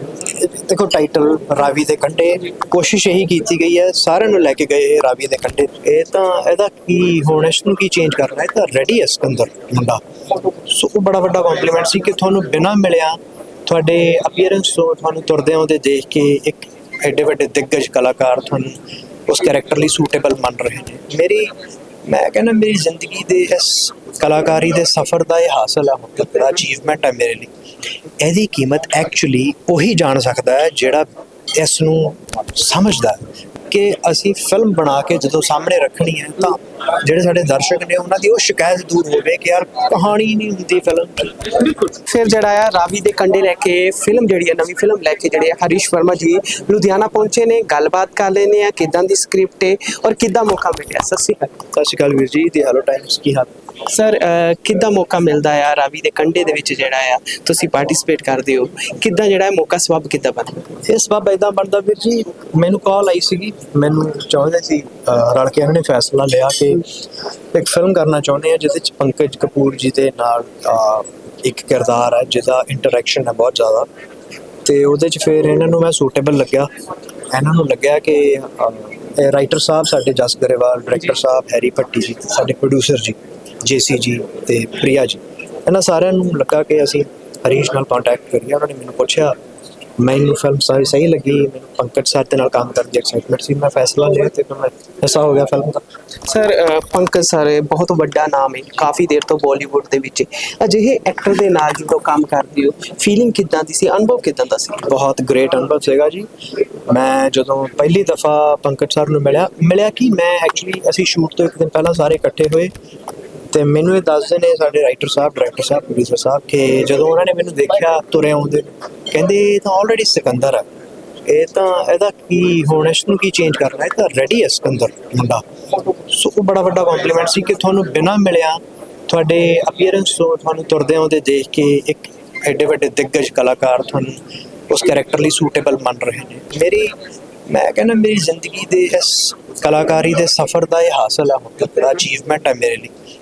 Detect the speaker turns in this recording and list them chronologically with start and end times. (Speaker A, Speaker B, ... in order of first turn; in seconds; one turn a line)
Speaker A: 0.2-21.5
Speaker A: 22.1-27.5
Speaker A: 28.2-41.7
Speaker B: 41.8-51.5
Speaker A: 51.7-53.5
Speaker B: 53.9-60.6
Speaker A: 60.9-66.9
Speaker A: 67.5-73.9
Speaker A: 74.6-76.7
Speaker A: 77.3-89.4
Speaker A: 90.0-95.8
Speaker B: 96.2-104.9
Speaker A: 104.8-106.3
Speaker A: 106.9-112.7
Speaker A: 113.5-120.7
Speaker A: 121.3-125.4
Speaker A: 126.0-136.9
Speaker A: 137.5-142.9